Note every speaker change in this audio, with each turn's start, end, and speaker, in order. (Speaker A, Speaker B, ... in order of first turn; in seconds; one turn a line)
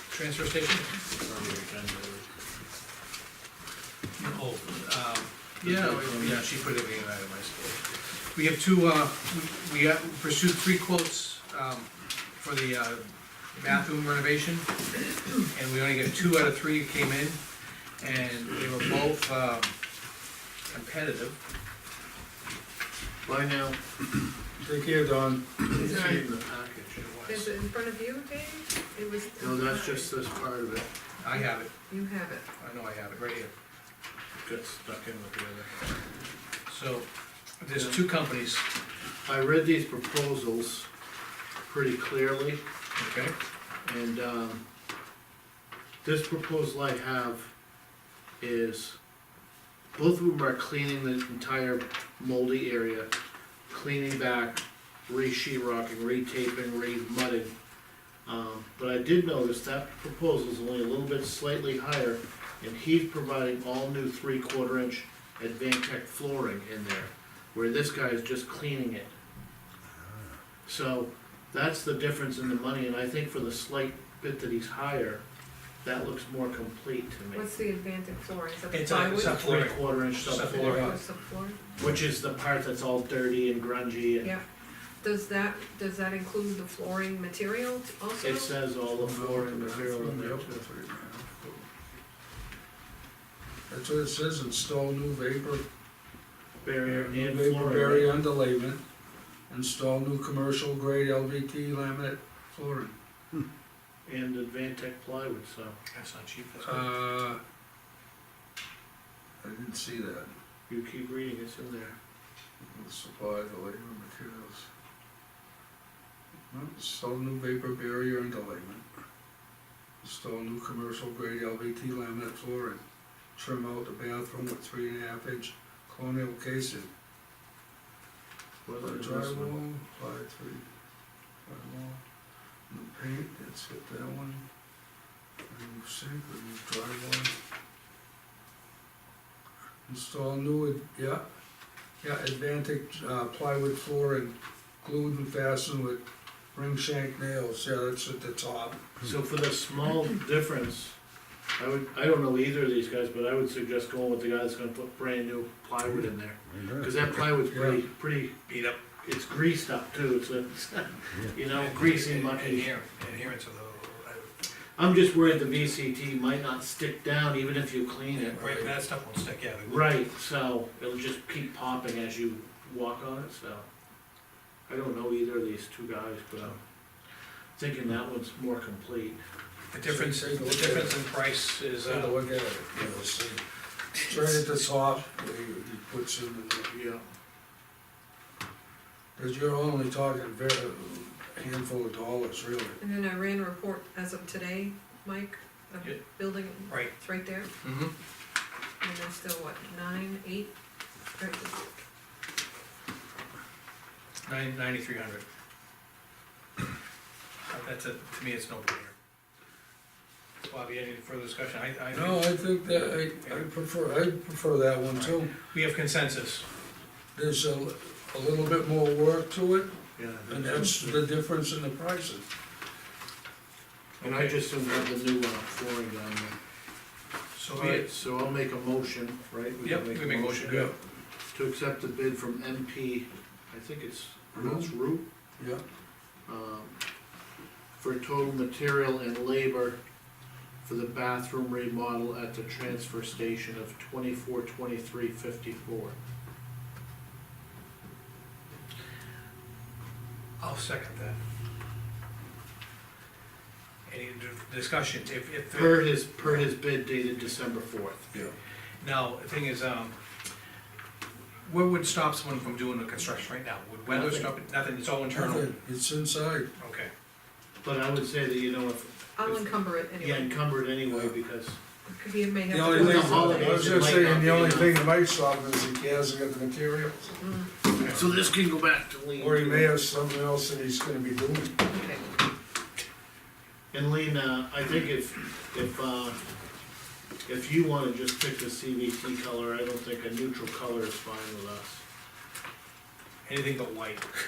Speaker A: 0.1-1.0
Speaker B: 1.1-2.3
Speaker A: 4.2-17.4
Speaker B: 5.6-6.5
Speaker A: 18.0-19.7
Speaker A: 20.7-21.4
Speaker B: 23.2-23.8
Speaker C: 24.6-25.5
Speaker B: 25.6-27.1
Speaker D: 25.7-26.3
Speaker A: 27.0-27.5
Speaker D: 27.3-30.2
Speaker B: 29.4-30.9
Speaker A: 31.2-31.7
Speaker D: 31.4-32.5
Speaker A: 32.6-33.5
Speaker B: 34.4-35.7
Speaker A: 36.7-37.1
Speaker A: 37.6-38.7
Speaker B: 37.8-38.0
Speaker B: 39.2-40.9
Speaker B: 41.7-42.6
Speaker A: 43.0-43.4
Speaker B: 43.8-44.6
Speaker B: 46.0-47.5
Speaker B: 48.4-49.0
Speaker B: 49.9-53.1
Speaker B: 53.7-57.5
Speaker B: 58.2-69.2
Speaker B: 70.7-75.2
Speaker B: 75.8-77.5
Speaker D: 77.3-79.4
Speaker A: 78.7-81.0
Speaker B: 79.3-80.8
Speaker D: 80.5-81.6
Speaker C: 80.7-81.0
Speaker B: 81.8-84.3
Speaker D: 85.0-88.5
Speaker B: 88.2-90.7
Speaker C: 88.9-91.4
Speaker C: 93.7-95.6
Speaker B: 96.6-98.2
Speaker C: 96.8-98.8
Speaker C: 99.5-103.0
Speaker B: 104.1-105.8
Speaker A: 105.9-106.8
Speaker C: 106.6-107.4
Speaker C: 109.4-110.3
Speaker B: 110.7-112.0
Speaker C: 112.6-114.7
Speaker C: 116.5-118.8
Speaker C: 120.0-122.8
Speaker C: 123.4-126.9
Speaker B: 128.7-129.6
Speaker C: 128.8-130.7
Speaker C: 131.4-132.0
Speaker C: 132.7-134.4
Speaker C: 135.5-137.3
Speaker C: 139.9-141.3
Speaker C: 142.0-146.0
Speaker C: 146.5-148.8
Speaker B: 149.0-151.0
Speaker B: 151.6-158.4
Speaker C: 157.5-157.8
Speaker A: 158.5-158.8
Speaker B: 158.9-162.7
Speaker A: 161.5-164.3
Speaker B: 164.8-168.6
Speaker A: 165.3-165.7
Speaker A: 168.3-169.9
Speaker C: 168.4-168.7
Speaker B: 169.7-173.7
Speaker B: 174.7-176.6
Speaker B: 177.6-179.2
Speaker A: 179.7-182.2
Speaker C: 179.8-181.0
Speaker C: 181.8-183.4
Speaker C: 184.0-186.7
Speaker B: 186.7-187.0
Speaker C: 189.2-192.8
Speaker D: 192.8-197.5
Speaker A: 196.7-196.9
Speaker A: 197.6-197.9
Speaker D: 198.8-200.5
Speaker D: 201.2-201.7
Speaker A: 204.2-205.2
Speaker A: 207.5-208.9
Speaker A: 210.5-212.6
Speaker C: 211.9-215.4
Speaker A: 214.9-216.5
Speaker C: 217.1-219.7
Speaker B: 220.0-221.0
Speaker C: 220.3-222.3
Speaker A: 224.0-224.4
Speaker B: 224.0-226.3
Speaker A: 227.3-227.9
Speaker B: 227.5-230.7
Speaker A: 229.6-230.8
Speaker B: 231.3-235.1
Speaker C: 234.3-234.7
Speaker B: 236.3-236.8
Speaker B: 237.8-239.8
Speaker B: 240.6-245.9
Speaker A: 250.4-251.2
Speaker A: 253.9-256.4
Speaker B: 255.5-258.3
Speaker A: 258.8-260.0
Speaker A: 261.4-265.5
Speaker B: 263.9-264.3
Speaker C: 265.1-266.5
Speaker A: 266.6-266.9
Speaker B: 267.6-271.6
Speaker D: 269.2-270.3
Speaker D: 271.9-273.8
Speaker C: 272.5-277.1
Speaker B: 272.6-274.8
Speaker D: 277.1-277.5
Speaker A: 277.8-278.0
Speaker B: 277.9-279.7
Speaker C: 279.2-281.6
Speaker D: 281.7-282.0
Speaker B: 283.7-286.2
Speaker B: 287.2-291.8
Speaker A: 293.3-294.1